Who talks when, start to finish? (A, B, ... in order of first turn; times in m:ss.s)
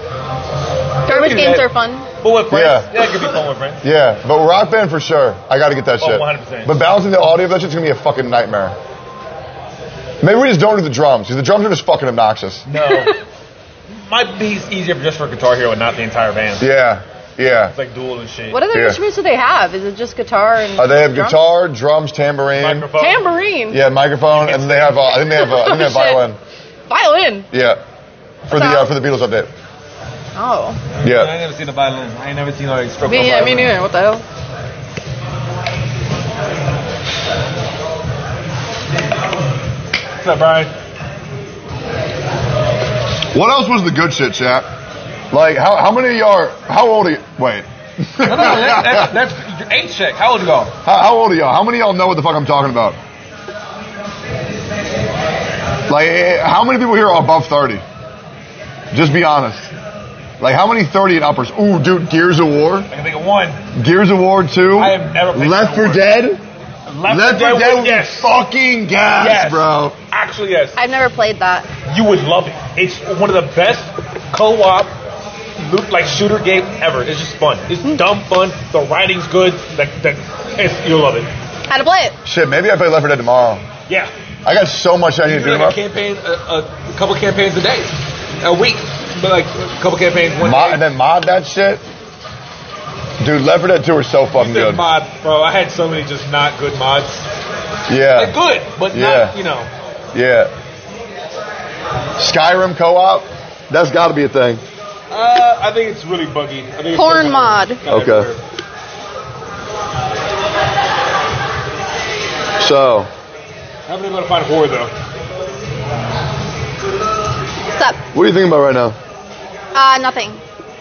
0:01.1-0:01.7 A
0:01.1-0:02.1 B
0:02.2-0:03.8 A
0:02.5-0:03.0 C
0:03.8-0:08.8 C
0:06.0-0:06.8 A
0:10.2-0:12.6 C
0:12.7-0:13.2 A
0:12.8-0:13.2 B
0:13.9-0:16.6 A
0:16.6-0:17.7 C
0:17.7-0:18.6 A
0:18.5-0:21.4 B
0:18.7-0:19.0 C
0:20.8-0:22.9 C
0:22.6-0:23.3 A
0:23.0-0:23.8 B
0:23.7-0:26.4 C
0:24.3-0:25.0 A
0:25.2-0:26.2 B
0:26.9-0:27.5 B
0:27.5-0:27.8 C
0:28.4-0:29.5 C
0:28.5-0:28.9 B
0:30.4-0:30.8 B
0:31.0-0:33.7 A
0:31.0-0:31.3 C
0:33.1-0:34.2 B
0:40.2-0:40.7 A
0:43.3-0:44.7 C
0:45.3-0:49.1 C
0:48.2-0:50.7 A
0:50.8-0:53.0 C
0:55.9-0:57.8 C
0:58.9-0:59.7 C
1:00.4-1:02.9 C
1:02.9-1:03.6 A
1:03.7-1:06.4 C
1:04.7-1:06.0 A
1:06.9-1:08.4 A
1:07.0-1:10.0 C
1:09.1-1:10.8 A
1:10.8-1:11.7 B
1:11.9-1:14.9 A
1:15.6-1:21.3 A
1:21.7-1:22.2 B
1:22.2-1:23.6 C
1:24.4-1:25.8 C
1:25.2-1:30.8 A
1:30.4-1:31.8 C
1:33.2-1:34.8 C
1:34.3-1:37.2 A
1:37.9-1:38.4 C
1:38.1-1:39.7 A
1:38.9-1:39.4 C
1:40.1-1:40.5 C
1:42.2-1:44.6 C
1:45.1-1:48.4 A
1:46.9-1:47.8 B
1:47.9-1:48.3 C
1:52.6-1:53.1 C
1:53.9-1:54.9 A
1:58.1-1:59.0 C
1:59.7-2:00.4 B